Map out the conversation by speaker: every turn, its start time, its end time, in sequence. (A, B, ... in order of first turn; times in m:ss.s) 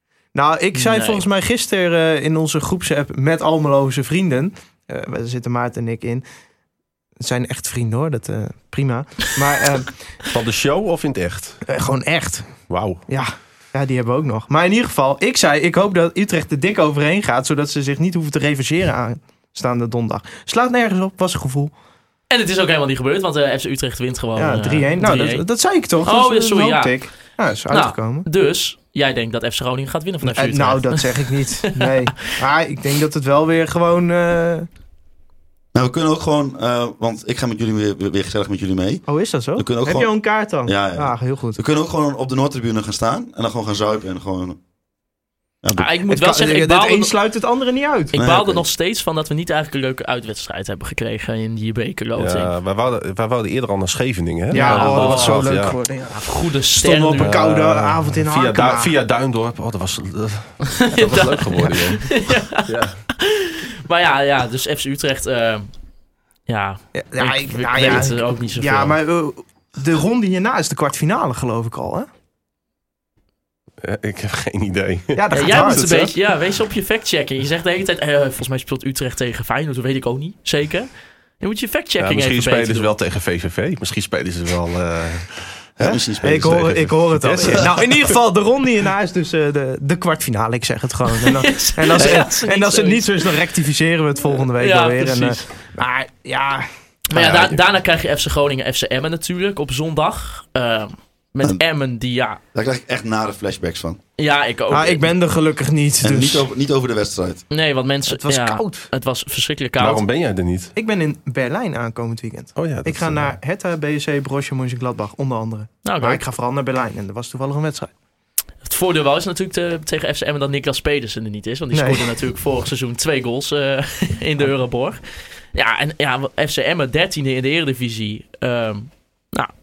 0:00.4-0:06.2 A
0:00.8-0:01.2 B
0:07.2-0:09.9 A
0:10.3-0:11.6 C
0:11.7-0:12.5 A
0:12.7-0:13.0 C
0:13.1-0:21.7 A
0:22.3-0:25.4 B
0:24.4-0:28.3 A
0:26.0-0:27.0 B
0:27.7-0:32.0 B
0:30.2-0:34.7 A
0:35.7-0:39.0 D
0:39.1-0:41.6 A
0:39.6-0:40.1 D
0:40.6-0:44.6 D
0:45.6-0:45.9 D
0:45.8-0:47.1 B
0:46.1-0:48.2 A
0:48.1-0:48.7 D
0:48.1-0:52.5 B
0:52.1-0:55.8 C
0:54.5-0:58.9 A
0:54.5-0:55.5 B
0:56.1-0:57.4 B
0:57.2-1:02.1 C
1:00.7-1:05.7 B
1:02.6-1:03.0 C
1:06.5-1:09.0 B
1:07.0-1:12.1 A
1:13.8-1:16.1 C
1:15.1-1:16.1 A
1:15.3-1:20.9 B
1:21.4-1:22.9 B
1:22.0-1:25.7 C
1:25.8-1:26.8 D
1:25.8-1:36.7 A
1:26.3-1:28.1 C
1:31.1-1:33.4 B
1:34.3-1:35.4 B
1:37.1-1:42.4 B
1:37.2-1:37.5 C
1:42.5-1:44.0 D
1:44.2-1:45.1 B
1:44.7-1:46.4 A
1:46.0-1:47.4 D
1:47.5-1:50.0 B
1:48.1-1:48.9 A
1:49.8-1:50.7 C
1:50.8-1:57.9 A
1:52.6-1:53.3 C
1:55.8-1:56.2 B
1:58.6-2:05.0 B
2:01.7-2:02.1 A
2:05.5-2:09.5 B